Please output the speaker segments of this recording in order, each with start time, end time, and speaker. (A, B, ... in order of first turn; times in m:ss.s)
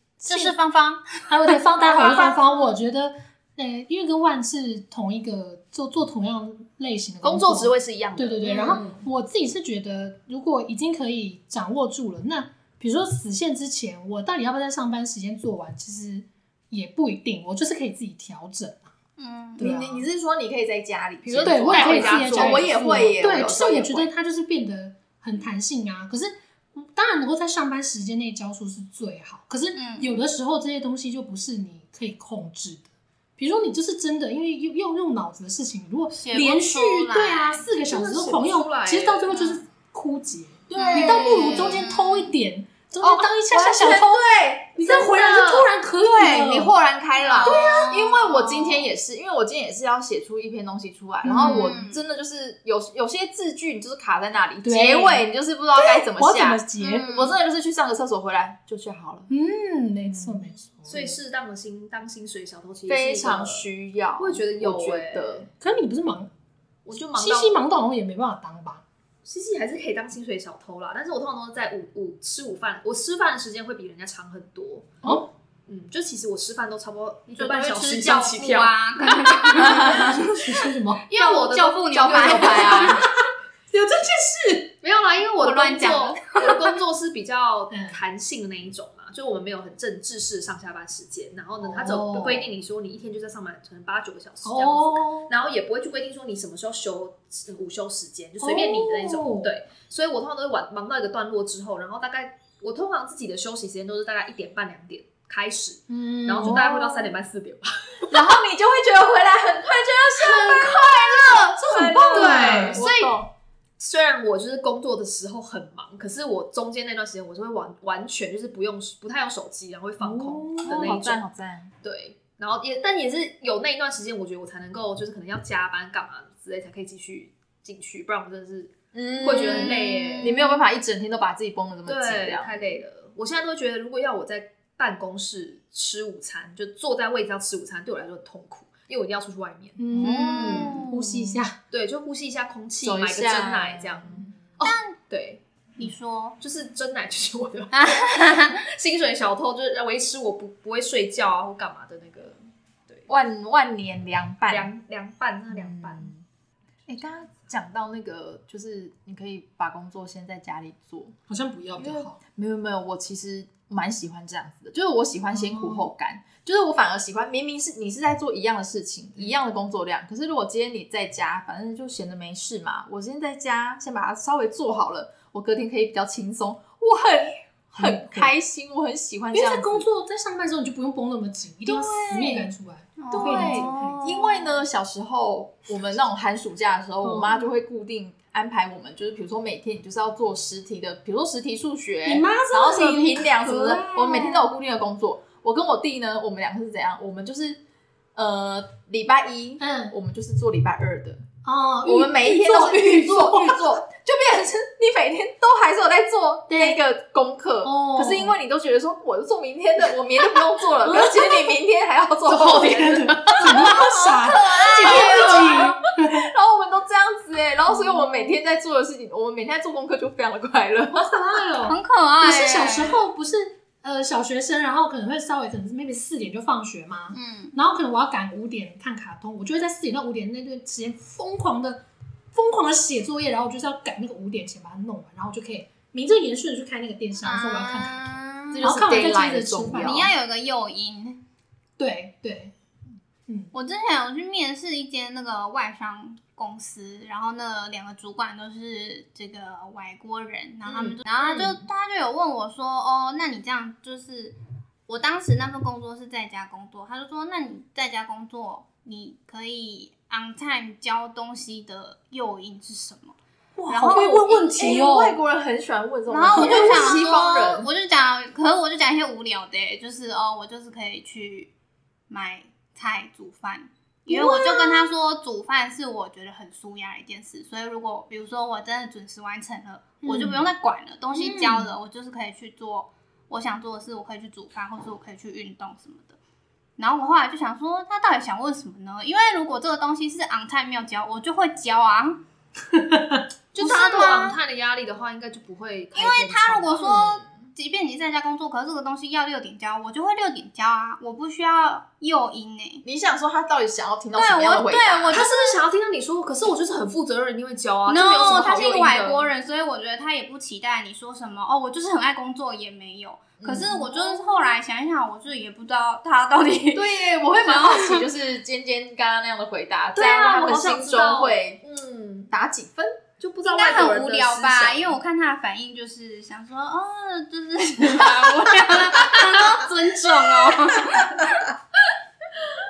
0:00.2-0:00.6 A
0:00.2-0:02.2 B
0:01.3-0:18.9 A
0:01.8-0:02.2 C
0:07.2-0:09.0 C
0:08.5-0:08.8 B
0:19.2-0:19.6 B
0:19.6-0:20.0 A
0:19.6-0:24.1 D
0:21.2-0:22.7 C
0:21.4-0:44.2 A
0:29.8-0:30.2 B
0:36.1-0:37.6 B
0:37.8-0:39.4 C
0:39.3-0:39.6 B
0:40.8-0:42.3 B
0:40.8-0:41.8 D
0:43.0-0:59.3 D
0:44.7-0:46.7 A
0:45.0-0:45.6 C
0:47.2-0:48.9 B
0:51.2-0:51.8 A
0:51.4-0:52.0 B
0:54.6-0:55.2 A
0:55.7-0:57.2 A
0:56.8-0:57.3 B
0:59.3-1:01.2 A
1:00.1-1:01.0 D
1:00.9-1:03.6 C
1:02.9-1:05.5 D
1:04.2-1:05.5 C
1:05.6-1:06.3 A
1:06.8-1:07.6 C
1:07.1-1:08.8 A
1:09.2-1:15.0 C
1:15.7-1:19.8 C
1:17.3-1:20.4 B
1:19.8-1:21.0 A
1:19.8-1:20.1 D
1:21.1-1:22.9 C
1:21.1-1:23.0 B
1:21.9-1:23.0 D
1:22.4-1:23.0 A
1:23.7-1:24.7 A
1:24.8-1:48.1 C
1:25.4-1:26.6 B
1:27.7-1:28.0 A
1:31.6-1:32.5 A
1:34.4-1:35.3 A
1:38.4-1:39.5 A
1:45.9-1:46.7 A
1:46.4-1:47.1 D
1:48.1-1:53.3 D
1:50.3-1:51.6 B
1:50.4-1:51.6 C
1:51.7-1:52.8 A
1:52.1-1:53.2 C
1:53.8-2:01.2 C
2:00.0-2:01.0 A
2:00.6-2:01.7 D
2:01.8-2:10.4 C
2:08.9-2:12.6 D
2:09.3-2:10.5 B
2:11.8-2:19.8 C
2:19.8-2:21.6 A
2:20.0-2:20.8 B
2:20.0-2:21.4 D
2:20.3-2:20.9 C
2:21.7-2:25.4 C
2:22.8-2:24.3 D
2:24.6-2:25.0 B
2:25.8-2:26.4 B
2:26.4-2:33.1 C
2:27.7-2:28.6 B
2:33.1-2:34.7 D
2:34.5-2:36.1 C
2:35.5-2:36.2 D
2:36.9-2:41.1 D
2:41.3-2:42.2 A
2:41.8-2:59.8 D
2:45.3-2:45.9 A
2:57.8-2:58.3 A
2:59.3-3:04.2 A
3:01.6-3:02.5 D
3:03.0-3:04.5 B
3:03.1-3:17.6 D
3:07.0-3:07.4 A
3:12.0-3:14.4 A
3:18.1-3:21.2 D
3:19.6-3:19.9 A
3:21.4-3:23.6 A
3:21.8-3:33.8 D
3:26.5-3:26.8 A
3:27.6-3:28.4 A
3:30.8-3:31.5 A
3:32.2-3:36.3 A
3:33.4-3:35.6 B
3:34.5-3:41.2 D
3:37.7-3:38.3 A
3:40.9-4:00.1 A
3:41.6-3:43.0 B
3:47.1-3:47.6 B
3:57.2-3:59.1 B
3:58.5-4:00.1 D
3:59.7-4:01.2 B
4:01.8-4:02.5 A
4:03.5-4:14.4 B
4:14.9-4:23.2 B
4:23.6-4:25.2 A
4:23.7-4:24.1 B
4:23.9-4:27.7 D
4:26.1-4:31.5 B
4:26.3-4:27.0 A
4:32.1-4:46.2 B
4:34.1-4:34.9 A
4:40.0-4:40.5 A
4:41.1-4:41.7 A
4:46.8-4:52.2 B
4:52.7-4:53.2 A
4:53.5-4:56.9 C
4:53.5-4:54.4 B
4:55.9-5:02.8 B
4:56.8-4:57.2 D
5:02.8-5:05.2 D
5:04.1-5:05.6 B
5:05.1-5:09.3 C
5:07.9-5:18.0 B
5:13.4-5:14.2 D
5:16.7-5:21.6 D
5:19.9-5:22.3 C
5:22.3-5:23.0 D
5:23.2-5:24.9 C
5:23.4-5:31.5 B